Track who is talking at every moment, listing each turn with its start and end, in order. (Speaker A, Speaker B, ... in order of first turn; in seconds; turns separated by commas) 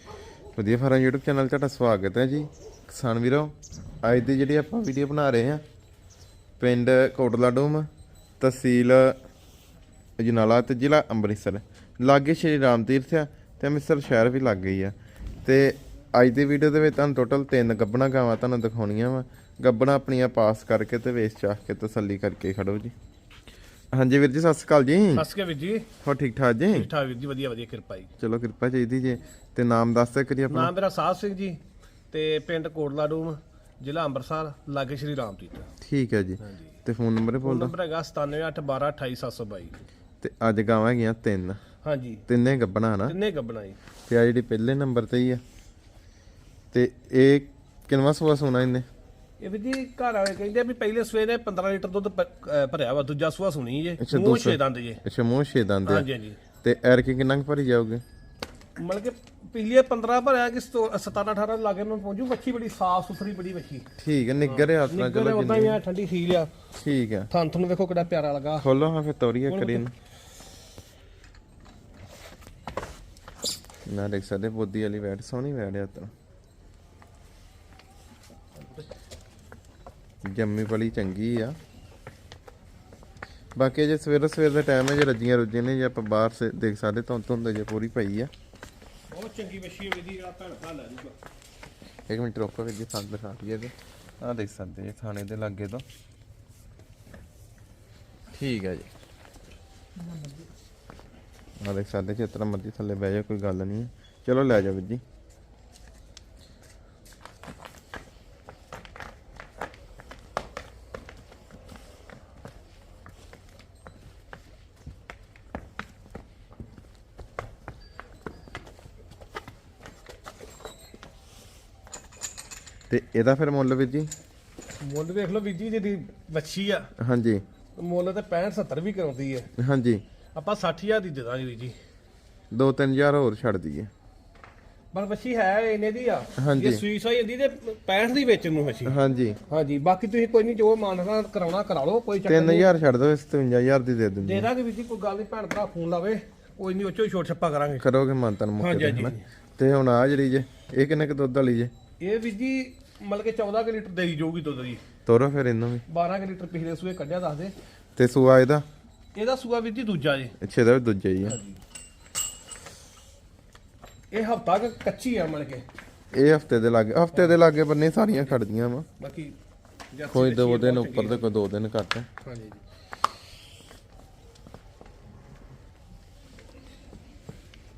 Speaker A: 0.5-5.6, Speaker A: 6.6-7.9, Speaker A: 8.4-9.2, Speaker A: 10.2-22.9, Speaker A: 23.9-25.2, Speaker B: 25.1-25.9, Speaker A: 26.0-26.9, Speaker B: 26.7-28.1, Speaker A: 28.2-30.7, Speaker B: 30.5-31.6, Speaker B: 32.1-35.7, Speaker A: 35.8-37.7, Speaker B: 37.4-39.8, Speaker A: 40.2-41.6, Speaker B: 41.8-42.2, Speaker A: 42.3-43.1, Speaker B: 43.1-43.8, Speaker A: 44.1-45.4, Speaker A: 46.7-48.9, Speaker B: 49.4-55.0, Speaker A: 54.0-56.0, Speaker B: 55.9-56.4, Speaker A: 56.6-58.0, Speaker B: 58.8-63.9, Speaker A: 64.0-65.8, Speaker B: 64.4-66.5, Speaker A: 66.8-67.3, Speaker B: 67.3-68.7, Speaker A: 68.6-69.9, Speaker B: 69.5-69.8, Speaker A: 73.9-76.1, Speaker A: 80.2-81.6, Speaker A: 83.5-88.3, Speaker B: 89.1-91.2, Speaker A: 92.1-95.8, Speaker A: 98.3-98.9, Speaker A: 101.6-105.0, Speaker A: 122.9-124.1, Speaker B: 124.8-126.9, Speaker A: 127.0-127.4, Speaker B: 127.8-129.5, Speaker A: 129.6-130.0, Speaker B: 130.3-131.8, Speaker A: 132.5-133.9, Speaker B: 134.9-138.9, Speaker A: 136.4-136.8, Speaker A: 138.8-139.4, Speaker B: 139.5-142.7, Speaker A: 142.2-144.5, Speaker B: 144.2-147.9, Speaker A: 147.8-151.7, Speaker B: 148.6-149.3, Speaker B: 152.0-154.8, Speaker A: 155.0-155.8, Speaker B: 155.9-157.5, Speaker A: 157.9-158.6, Speaker B: 159.1-160.3, Speaker A: 160.4-161.4, Speaker B: 161.2-161.6, Speaker B: 164.1-165.6, Speaker A: 166.1-168.9, Speaker B: 169.0-169.3, Speaker B: 169.9-171.3, Speaker A: 170.1-172.1, Speaker B: 172.2-172.6